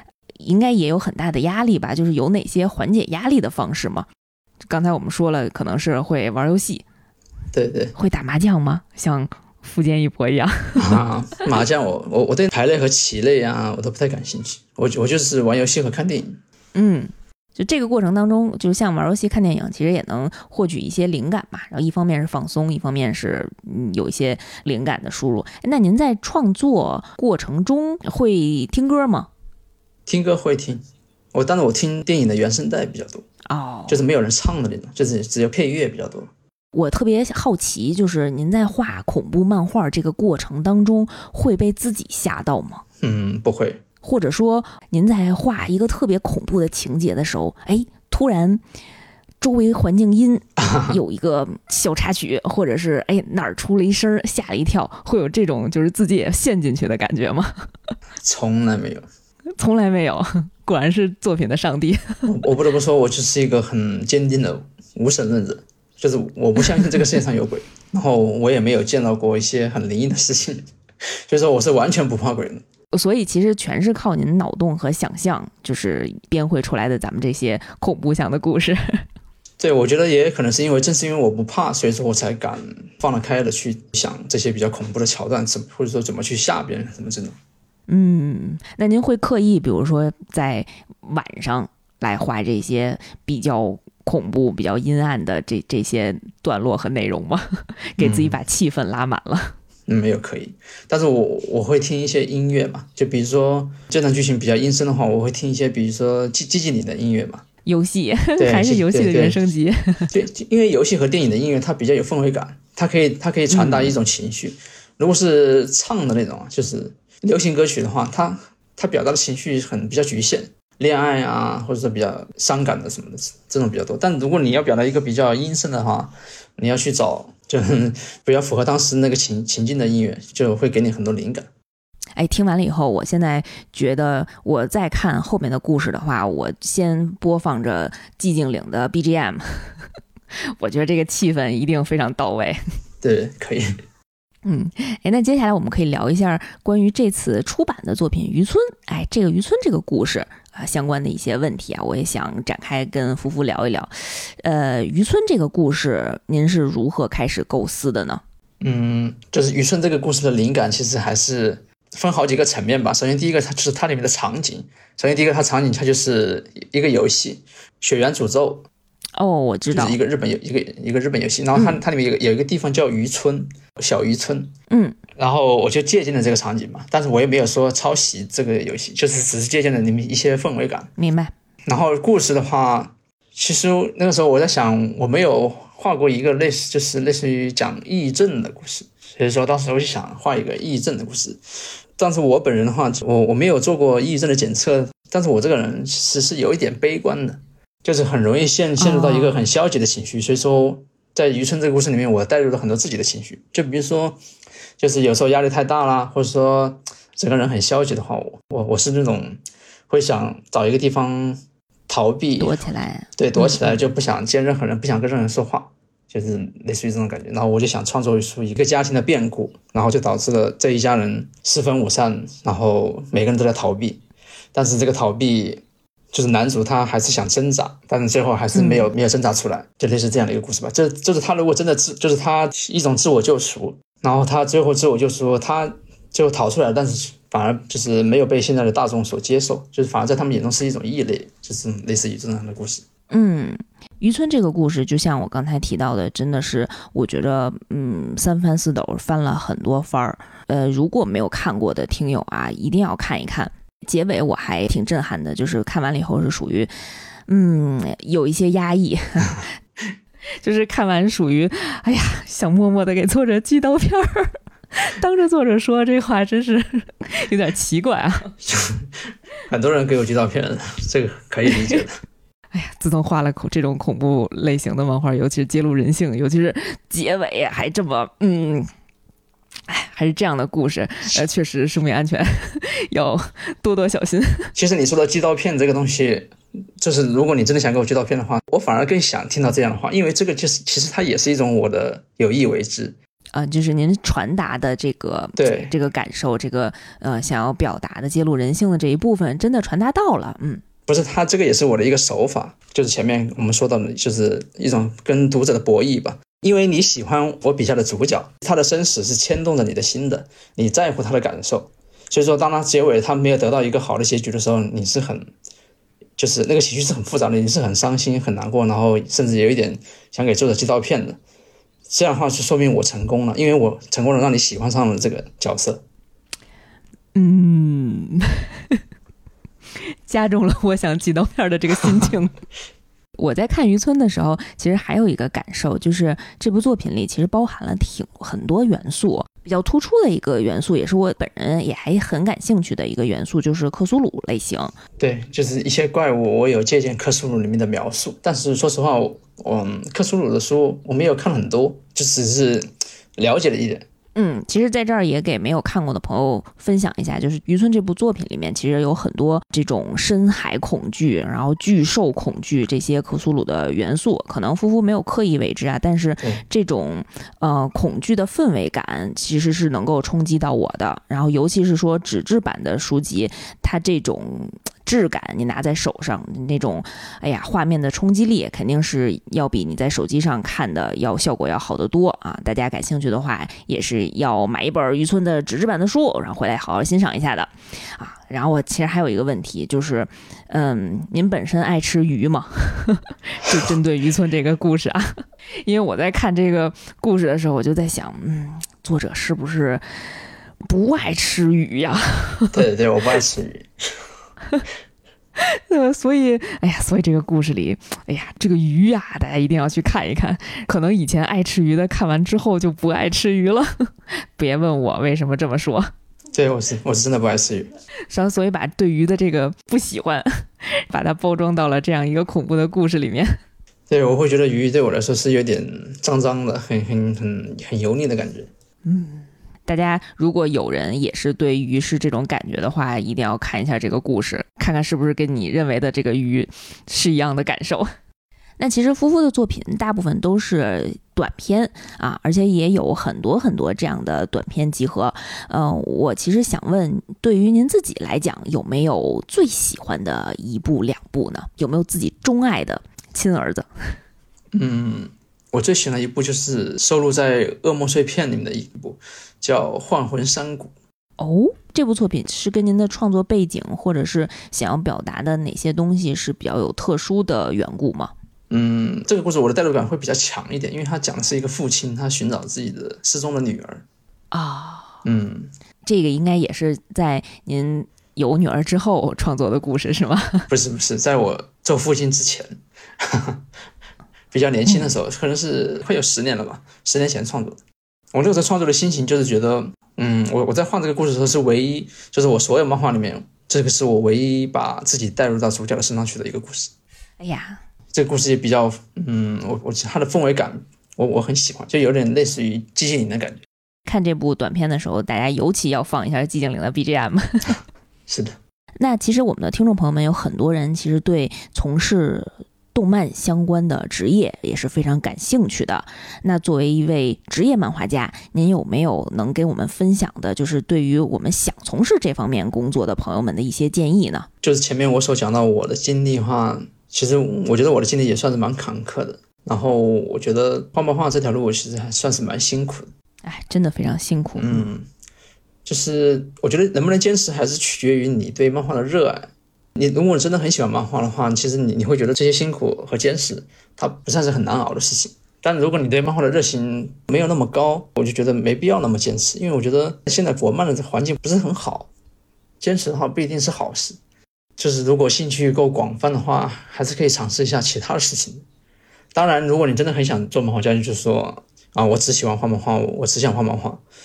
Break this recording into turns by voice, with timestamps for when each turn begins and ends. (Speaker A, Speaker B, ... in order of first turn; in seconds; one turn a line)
Speaker A: 0.4-4.1
Speaker A: 4.7-6.8
Speaker B: 7.5-7.9
Speaker A: 7.9-11.0
Speaker B: 10.8-16.4
Speaker A: 16.7-29.3
Speaker B: 30.1-30.8
Speaker B: 31.3-33.2
Speaker A: 33.5-34.0
Speaker B: 33.9-36.3
Speaker A: 36.7-42.8
Speaker B: 43.0-43.8
Speaker A: 44.0-48.6
Speaker A: 49.4-57.7
Speaker B: 50.6-51.0
Speaker B: 58.2-59.0
Speaker A: 59.6-62.2
Speaker B: 62.2-70.7
Speaker B: 71.3-72.6
Speaker A: 72.9-79.0
Speaker B: 79.6-87.3
Speaker A: 87.9-99.5
Speaker B: 98.0-98.4
Speaker B: 99.9-107.4
Speaker A: 107.7-110.1
Speaker B: 108.4-109.4
Speaker B: 110.1-131.5
Speaker A: 113.5-113.9
Speaker A: 132.2-139.8
Speaker A: 140.6-142.6
Speaker B: 143.0-143.7
Speaker A: 144.4-158.2
Speaker B: 158.6-168.7
Speaker A: 169.2-170.0
Speaker B: 169.7-174.5
Speaker A: 171.5-171.8
Speaker A: 174.7-175.0
Speaker B: 175.2-180.9
Speaker A: 181.0-181.3
Speaker B: 181.7-191.4
Speaker B: 192.0-204.2
Speaker A: 198.8-199.3
Speaker B: 204.8-212.6
Speaker A: 212.4-213.8
Speaker B: 213.2-224.0
Speaker B: 224.5-242.8
Speaker A: 228.5-228.9
Speaker A: 243.1-256.7
Speaker A: 257.3-259.5
Speaker A: 260.4-268.4
Speaker B: 268.4-268.8
Speaker B: 269.5-272.0
Speaker A: 271.5-271.8
Speaker A: 272.5-278.7
Speaker A: 279.7-284.5
Speaker B: 284.6-292.9
Speaker A: 293.3-300.6
Speaker B: 295.4-295.7
Speaker B: 300.9-315.3
Speaker B: 316.2-321.2
Speaker B: 321.9-325.8
Speaker A: 327.1-328.8
Speaker A: 330.1-332.3
Speaker B: 331.8-332.1
Speaker A: 333.2-344.7
Speaker B: 345.0-353.8
Speaker A: 354.1-399.8
Speaker A: 400.6-402.6
Speaker B: 402.5-403.7
Speaker A: 405.4-415.9
Speaker B: 416.3-417.7
Speaker A: 418.1-423.4
Speaker B: 423.9-428.5
Speaker A: 428.8-437.9
Speaker A: 438.6-453.9
Speaker B: 454.5-460.7
Speaker A: 461.2-468.1
Speaker B: 468.5-473.8
Speaker A: 474.3-475.0
Speaker B: 475.0-475.5
Speaker A: 475.9-480.5
Speaker B: 480.5-483.4
Speaker B: 484.3-487.6
Speaker A: 484.7-484.9
Speaker B: 488.1-496.7
Speaker A: 497.2-497.6
Speaker B: 497.9-503.4
Speaker A: 503.9-507.6
Speaker B: 508.1-508.4
Speaker A: 508.8-524.3
Speaker B: 524.4-532.9
Speaker A: 533.2-534.7
Speaker B: 534.4-534.9
Speaker B: 535.6-551.9
Speaker B: 552.6-554.0
Speaker B: 554.6-558.4
Speaker B: 559.1-563.8